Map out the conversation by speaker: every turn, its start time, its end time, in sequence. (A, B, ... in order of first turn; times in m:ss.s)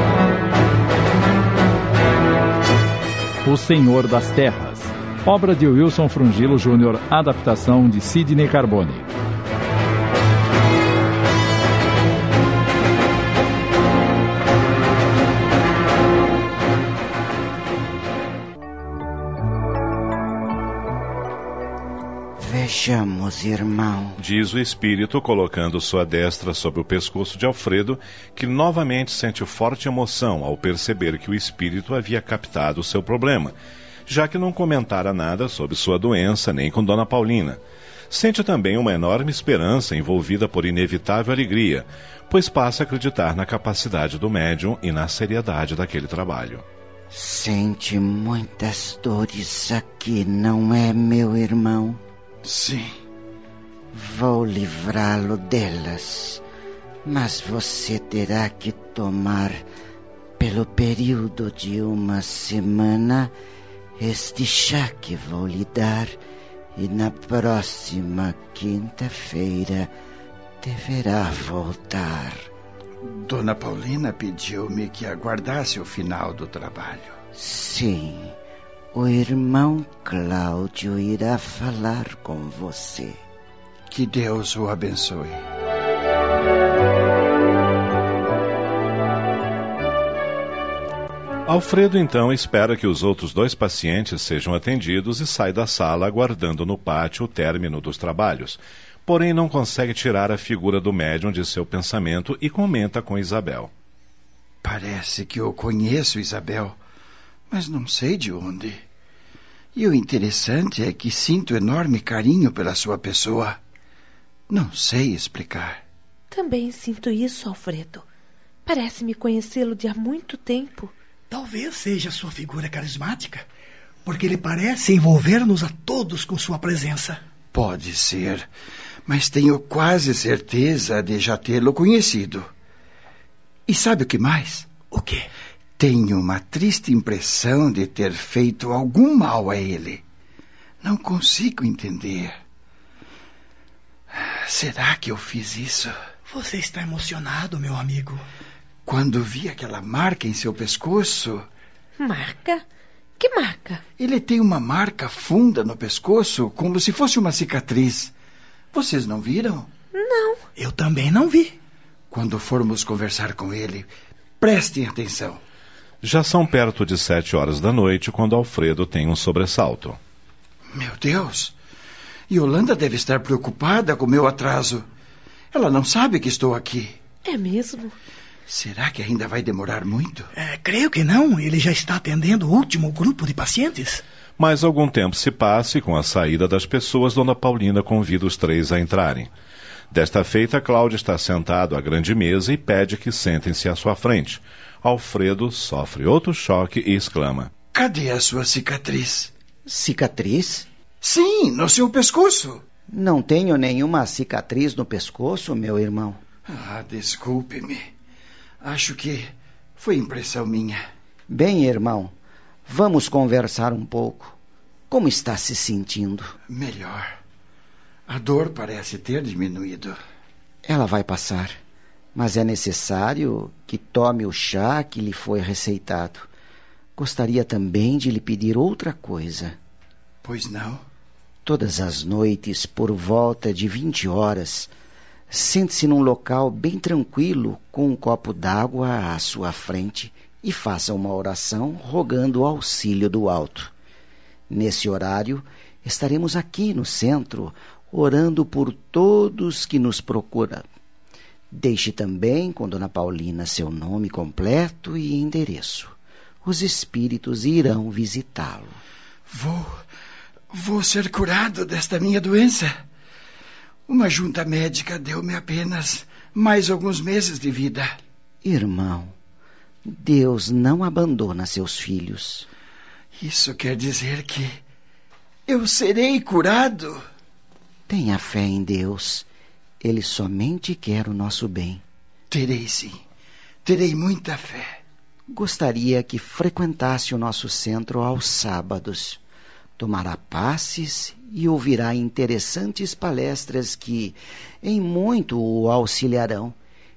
0:03.4-0:09.1 A
0:22.4-0:24.2 B
0:24.2-0:33.6 C
0:34.1-0:46.6 C
0:47.1-0:52.0 B
0:52.4-0:52.9 D
0:53.9-0:56.4 B
0:57.0-0:59.6 B
1:00.4-1:03.3 B
1:04.0-1:06.2 B
1:06.8-1:09.9 B
1:10.6-1:12.5 B
1:13.0-1:17.1 D
1:17.3-1:18.3 B
1:18.9-1:23.2 B
1:23.9-1:25.4 D
1:31.5-1:43.7 C
1:44.6-1:46.8 D
1:47.5-1:48.8 D
1:49.8-1:53.6 D
1:54.5-1:55.8 D
1:56.3-1:58.0 E
1:58.7-2:00.9 E
2:01.3-2:03.5 F
2:04.1-2:07.2 F
2:07.5-2:08.5 D
2:09.1-2:12.4 D
2:13.7-2:14.8 D
2:14.9-2:15.3 F
2:15.8-2:20.0 D
2:20.8-2:22.4 D
2:24.1-2:25.9 D
2:26.3-2:28.2 F
2:28.9-2:31.4 D
2:32.0-2:32.6 E
2:33.2-2:33.8 E
2:34.0-2:38.1 D
2:38.7-2:39.7 D
2:40.0-2:40.4 E
2:40.6-2:41.6 F
2:42.1-2:43.9 D
2:44.4-2:45.4 D
2:46.0-2:50.0 C
2:50.7-2:51.6 D
2:52.3-2:54.9 D
2:55.5-2:57.0 D
2:57.3-2:57.9 E
2:58.5-3:00.3 D
3:00.4-3:04.0 F
3:04.4-3:09.3 C
3:09.9-3:17.5 C
3:17.7-3:19.3 D
3:19.7-3:20.7 B
3:21.0-3:22.6 D
3:22.9-3:26.2 B
3:26.5-3:27.8 D
3:28.6-3:30.8 D
3:31.3-3:32.1 B
3:32.7-3:34.4 B
3:34.9-3:36.3 B
3:36.5-3:37.1 D
3:38.1-3:40.0 D
3:40.6-3:41.6 B
3:42.2-3:46.3 B
3:47.0-3:49.6 B
3:50.2-3:50.8 D
3:51.4-3:54.7 B
3:55.3-4:03.7 B
4:04.5-4:10.7 B
4:11.5-4:18.8 B
4:19.3-4:19.7 D
4:20.5-4:22.7 D
4:23.9-4:28.0 D
4:28.4-4:29.1 B
4:29.9-4:32.5 B
4:33.2-4:34.6 D
4:35.5-4:37.0 D
4:37.9-4:39.3 B
4:39.8-4:41.8 B
4:42.3-4:43.0 D
4:43.6-4:44.8 D
4:45.3-4:49.2 B
4:49.8-4:56.6 B